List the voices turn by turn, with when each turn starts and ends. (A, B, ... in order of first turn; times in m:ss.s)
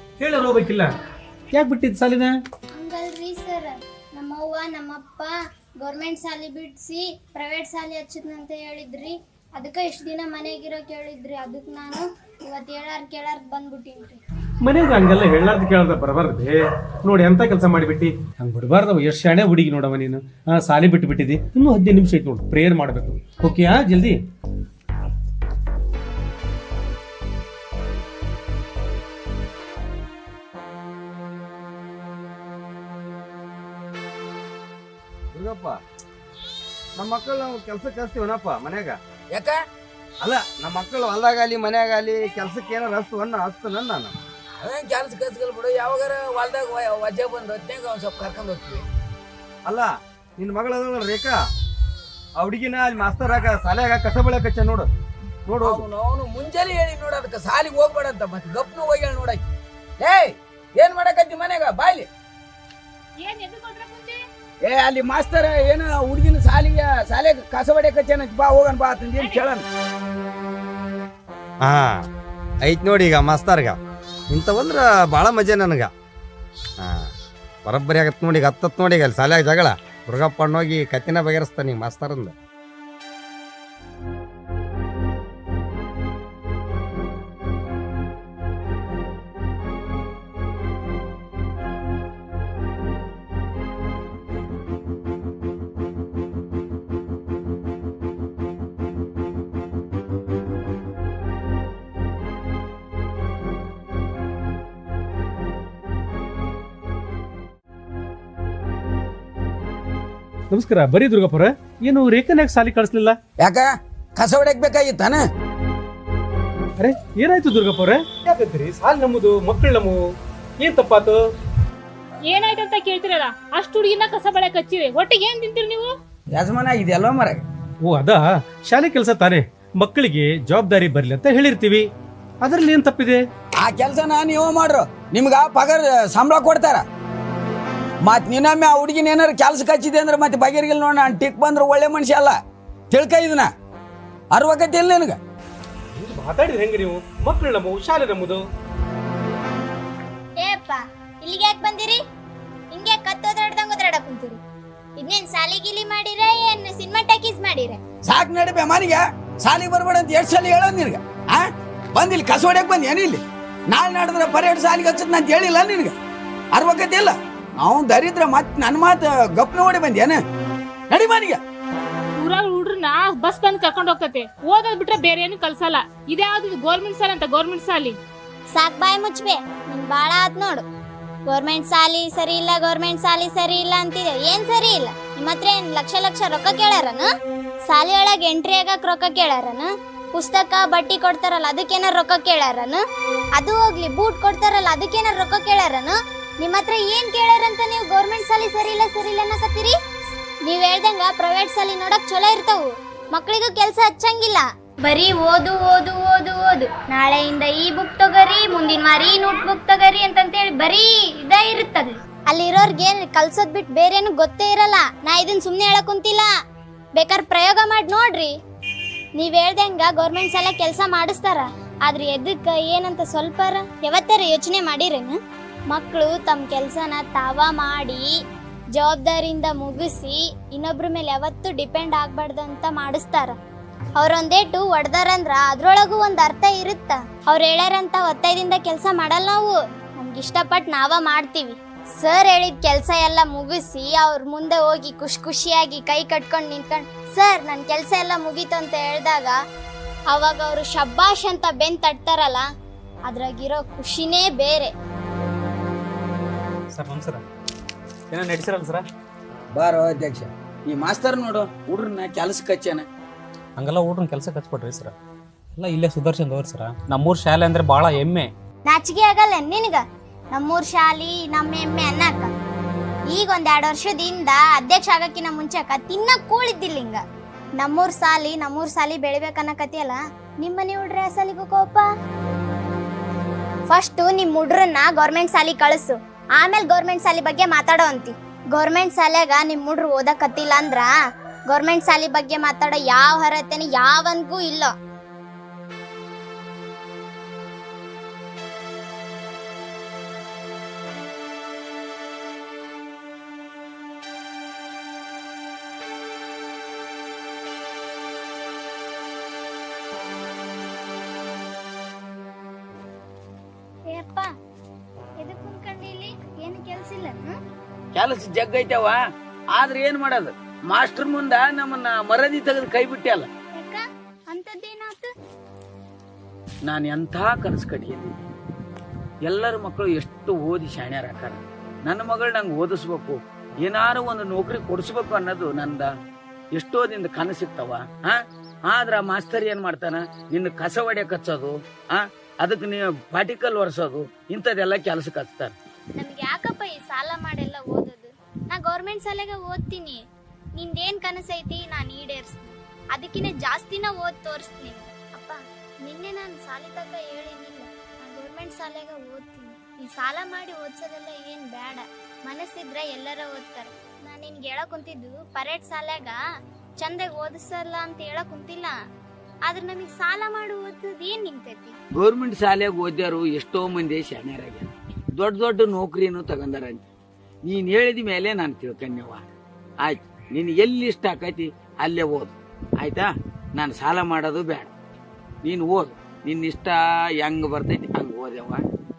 0:00.2-0:00.9 A
0:01.5-0:02.4 A
0:02.7-0:14.2 B
0:14.6-0:24.2 A
0:35.3-0:35.8 C
0:37.0-0:39.0 C
0:39.3-0:39.6 D
0:40.2-0:44.1 C
0:44.6-0:48.8 D
0:49.6-0:51.4 C
0:52.4-0:54.9 C
0:55.5-0:55.8 C
0:55.6-0:59.4 D
1:00.0-1:02.1 D
1:03.2-1:04.2 E
1:04.6-1:09.6 D
1:09.2-1:09.5 E
1:11.6-1:12.0 C
1:12.6-1:13.8 C
1:14.3-1:15.9 C
1:16.8-1:17.1 C
1:17.6-1:22.3 C
1:50.5-1:53.2 A
1:53.4-1:55.2 D
1:56.8-2:00.0 A
2:00.6-2:01.2 A
2:02.3-2:05.9 E
2:06.3-2:07.4 D
2:07.8-2:11.9 A
2:12.4-2:13.2 A
2:13.6-2:16.8 D
2:18.0-2:22.4 D
2:22.9-2:23.5 D
2:24.3-2:25.2 D
2:25.9-2:28.4 A
2:30.4-2:32.0 B
2:32.7-2:34.4 B
2:35.0-2:37.8 B
2:38.0-2:45.9 D
2:46.5-2:50.2 D
2:50.9-2:51.4 D
2:52.2-2:58.0 E
2:58.5-3:00.6 B
3:01.3-3:07.1 B
3:07.6-3:12.8 B
3:13.3-3:19.8 B
3:20.4-3:36.3 B
3:36.9-3:38.3 B
3:39.2-3:45.2 B
3:45.7-3:48.1 B
3:48.7-3:53.4 B
3:54.0-4:09.4 B
4:10.1-4:12.4 B
4:13.1-4:14.7 B
4:16.7-4:17.2 F
4:18.1-4:18.8 F
4:19.5-4:22.8 D
4:23.6-4:24.9 F
4:25.6-4:28.3 F
4:28.6-4:32.3 B
4:33.1-4:37.0 B
4:37.6-4:41.9 B
4:43.7-4:50.9 B
4:51.5-4:54.7 B
5:13.9-5:14.3 B
5:15.2-5:17.4 B
5:17.9-5:19.0 D
5:19.5-5:23.3 D
5:23.5-5:25.1 B
5:26.6-5:28.2 D
5:29.2-5:35.9 D
5:36.5-5:45.5 D
5:46.0-5:50.0 B
5:50.6-6:06.2 B
6:06.8-6:08.7 B
6:09.4-6:11.8 B
6:11.9-6:16.8 D
6:17.4-6:19.2 D
6:19.8-6:24.7 D
6:25.4-6:28.6 D